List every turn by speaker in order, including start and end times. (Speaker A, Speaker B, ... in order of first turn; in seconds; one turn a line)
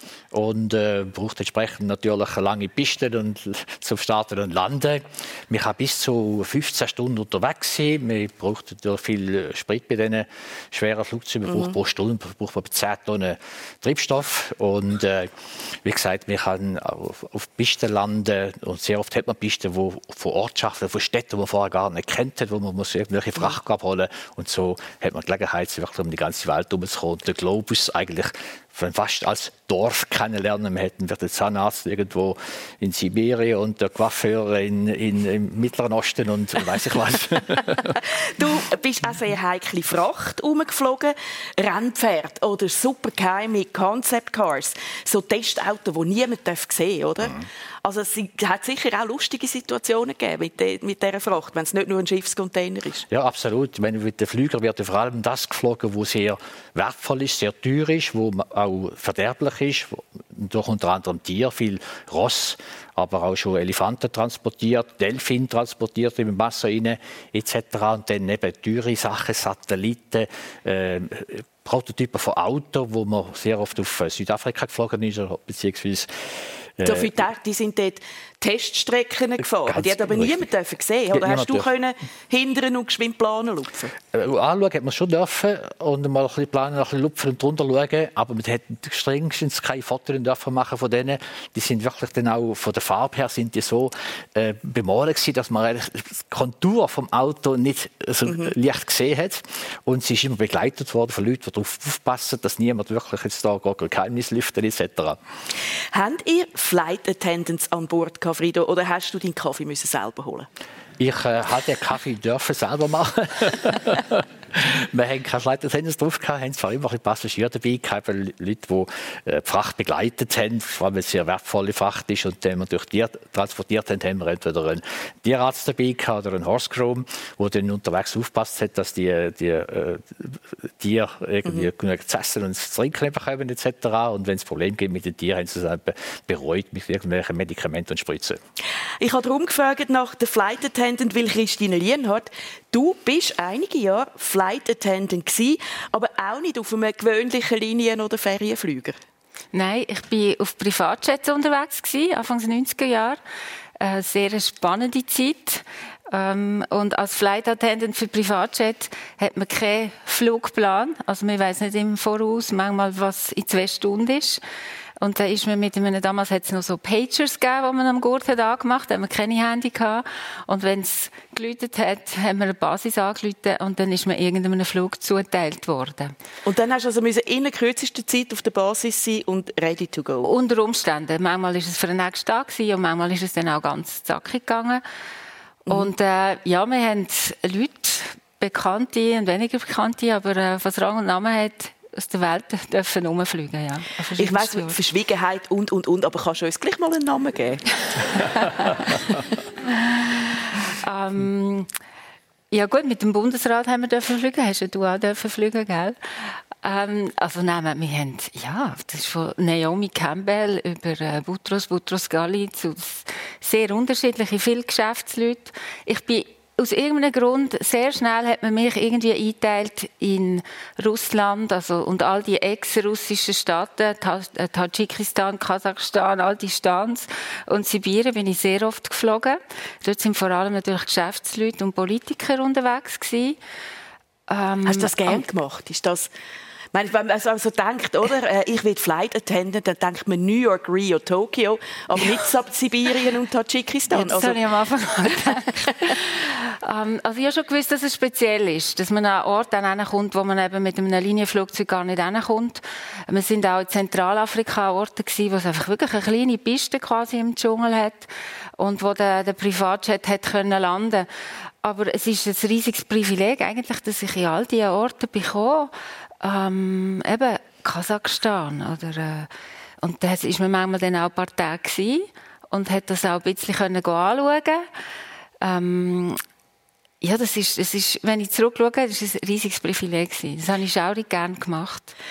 Speaker A: 0.3-38.0
Speaker B: 38.0-53.1
Speaker A: 53.1-77.2
Speaker B: 76.8-83.9
Speaker A: 79.7-80.5
Speaker A: 81.1-81.7
Speaker A: 84.1-105.2
Speaker B: 105.9-110.5
Speaker A: 111.0-138.4
Speaker B: 139.0-149.0
Speaker C: 149.5-153.2
Speaker C: 153.8-164.4
Speaker C: 165.0-176.1
Speaker B: 176.4-180.3
Speaker C: 180.2-184.8
Speaker B: 185.7-185.9
Speaker C: 185.7-194.8
Speaker B: 194.2-197.8
Speaker C: 200.0-201.7
Speaker C: 202.5-233.4
Speaker C: 234.3-235.2
Speaker B: 234.6-236.1
Speaker B: 236.7-244.4
Speaker C: 243.9-261.1
Speaker C: 261.6-269.3
Speaker C: 269.8-274.6
Speaker C: 275.4-276.2
Speaker C: 277.0-281.9